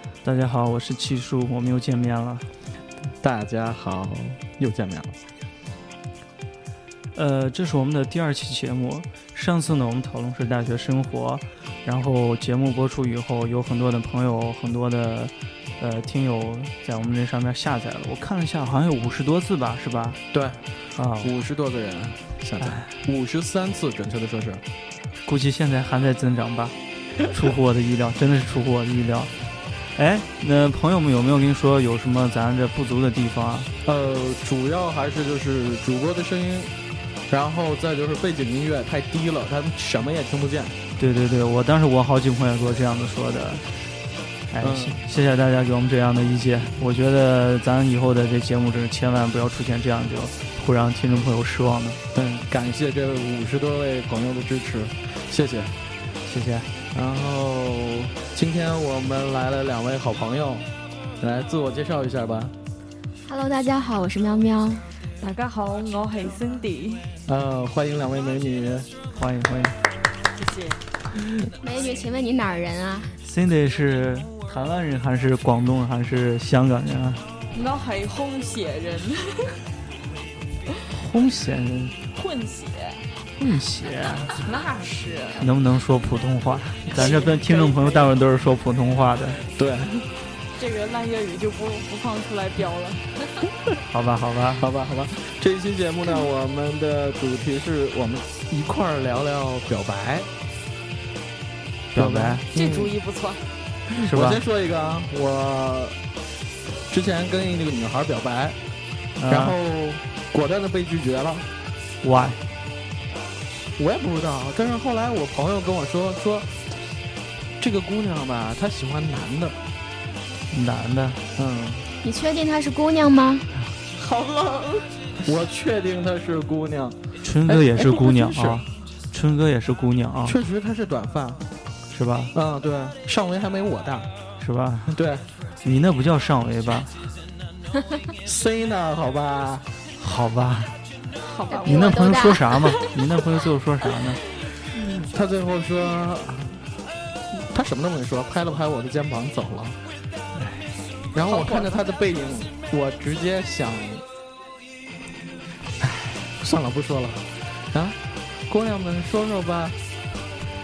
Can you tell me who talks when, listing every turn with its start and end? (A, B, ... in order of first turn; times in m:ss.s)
0:00.2-0:02.5 A
0:03.2-0:05.2 B
0:07.2-0:20.2 A
0:20.3-0:20.6 B
0:21.0-0:21.3 A
0:21.2-0:24.6 B
0:22.6-0:23.0 A
0:25.3-0:29.3 A
0:30.0-0:33.7 A
0:33.9-0:36.7 B
0:37.3-0:40.8 B
0:41.0-0:43.7 A
0:44.5-0:52.0 A
0:44.6-0:45.0 B
0:52.2-0:55.7 B
0:56.3-0:56.7 A
0:56.9-1:00.7 B
1:01.2-1:02.5 B
1:03.2-1:04.9 C
1:05.2-1:07.1 D
1:07.3-1:08.9 B
1:09.1-1:09.8 A
1:10.3-1:10.9 D
1:11.6-1:13.2 C
1:13.2-1:17.2 A
1:17.5-1:19.6 D
1:20.9-1:22.0 A
1:22.1-1:23.1 D
1:23.4-1:24.4 A
1:24.4-1:25.5 D
1:25.4-1:29.4 A
1:26.9-1:28.1 D
1:29.6-1:30.0 B
1:30.5-1:33.2 D
1:33.8-1:34.7 A
1:34.6-1:40.3 B
1:41.9-1:42.5 A
1:42.0-1:42.9 B
1:42.5-1:43.4 D
1:43.9-1:46.0 B
1:44.0-1:44.4 A
1:46.9-1:48.6 B
1:49.2-1:49.6 A
1:49.3-1:51.5 B
1:52.0-1:52.4 A
1:53.8-1:56.6 B
1:57.6-1:59.6 B
2:00.5-2:01.2 A
2:01.4-2:01.9 B
2:02.0-2:03.5 C
2:04.0-2:05.0 D
2:05.2-2:08.6 B
2:07.2-2:10.4 A
2:10.2-2:11.4 B
2:11.9-2:12.3 A
2:12.3-2:14.1 B
2:14.4-2:15.0 A
2:14.9-2:15.3 B
2:15.6-2:17.0 A
2:18.2-2:19.7 B
2:20.0-2:20.7 A
2:21.2-2:22.8 D
2:21.5-2:22.7 C
2:21.6-2:24.2 A
2:24.7-2:26.7 B
2:27.3-2:29.8 B
2:30.4-2:30.7 A
2:31.1-2:34.0 B
2:31.2-2:31.8 D
2:35.8-2:38.0 B
2:38.5-2:39.8 B